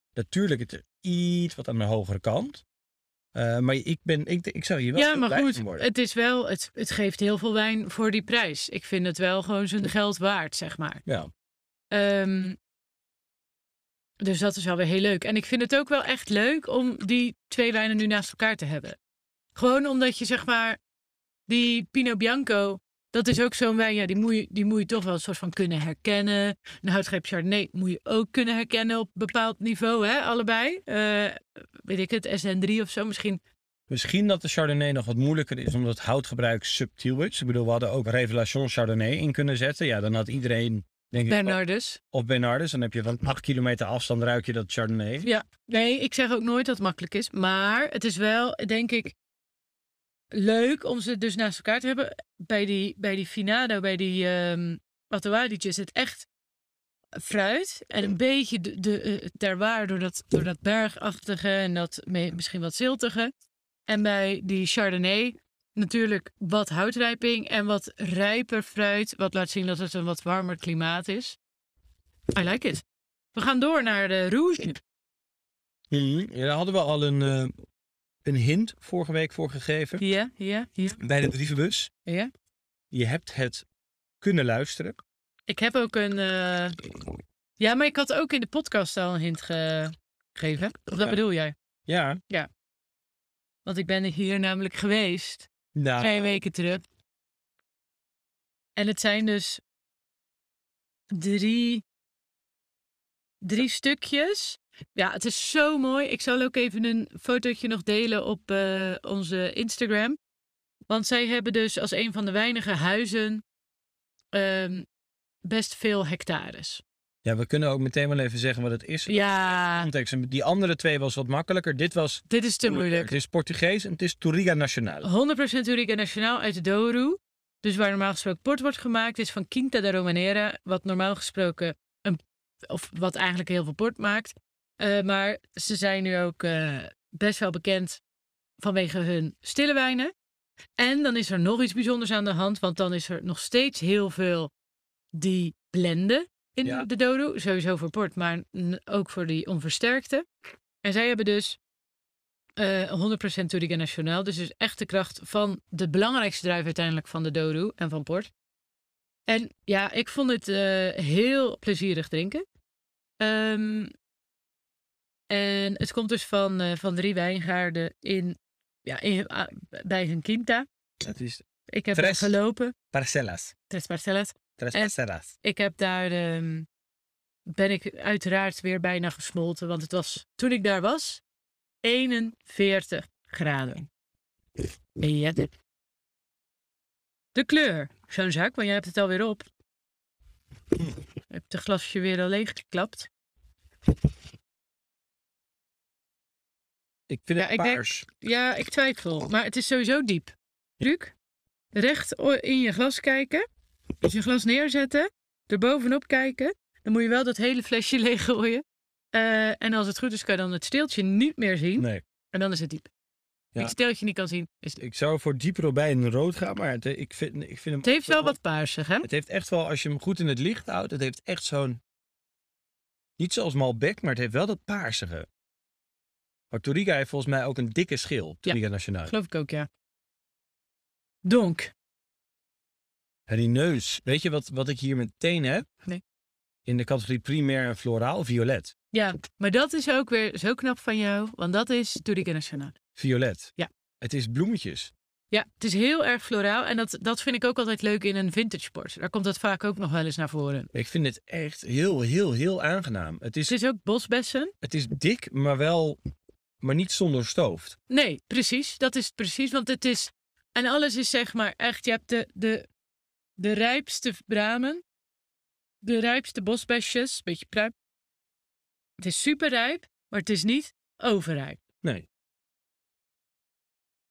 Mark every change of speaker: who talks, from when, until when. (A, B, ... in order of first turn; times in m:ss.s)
0:00.2-0:02.6 A
0:03.3-0:05.9 A
0:05.0-0:11.0 B
0:11.9-0:12.6 B
0:14.2-0:19.0 B
0:19.6-0:20.8 B
0:21.5-0:33.4 B
0:33.9-0:41.6 A
0:41.3-0:42.0 B
0:42.1-0:45.3 A
0:45.2-0:49.2 B
0:50.3-0:56.3 B
0:57.2-1:03.3 B
1:03.9-1:11.4 B
1:12.3-1:14.8 B
1:15.9-1:17.5 A
1:18.2-1:20.0 A
1:20.0-1:21.0 B
1:21.0-1:21.9 A
1:22.0-1:22.3 B
1:22.9-1:23.7 A
1:24.2-1:25.0 A
1:25.5-1:26.8 B
1:27.6-1:31.5 B
1:31.9-1:32.2 A
1:33.6-1:36.8 B
1:35.8-1:36.1 A
1:38.8-1:39.6 B
1:41.1-1:41.8 B
1:43.4-1:50.2 B
1:50.9-1:53.4 B
1:54.3-1:54.9 B
1:55.4-1:56.8 B
1:57.2-2:05.1 A
1:59.1-1:59.9 B
2:02.3-2:03.1 B
2:05.0-2:18.0 B
2:18.6-2:20.1 B
2:20.8-2:24.5 B
2:25.1-2:30.3 B
2:30.8-2:31.6 B
2:32.6-2:38.3 B
2:39.3-2:42.4 B
2:43.2-2:43.9 B
2:45.3-2:50.7 B
2:51.0-2:52.4 A
2:51.7-2:52.8 B
2:52.9-2:53.5 A
2:53.7-2:56.7 B
2:54.6-2:55.3 A
2:57.5-3:01.2 B
3:01.8-3:03.9 B
3:05.0-3:05.5 B
3:07.3-3:09.5 B
3:11.3-3:13.1 B
3:17.1-3:18.1 A
3:17.4-3:21.1 B
3:21.7-3:23.5 B
3:24.0-3:32.9 B
3:31.8-3:32.0 A
3:33.6-3:34.8 B
3:34.8-3:38.4 A
3:37.8-3:39.1 B
3:39.0-3:41.8 A
3:43.2-3:45.3 A
3:46.5-3:49.1 A
3:48.5-3:49.7 B
3:51.2-3:51.7 B
3:53.3-3:55.7 A
3:56.7-3:58.8 A
3:58.9-4:02.8 B
4:03.0-4:04.9 A
4:05.3-4:10.7 B
4:10.7-4:13.6 A
4:13.5-4:14.5 B
4:14.6-4:16.0 A
4:16.6-4:17.8 A
4:17.9-4:22.7 B
4:23.4-4:24.8 B
4:25.8-4:27.7 B
4:29.0-4:31.6 B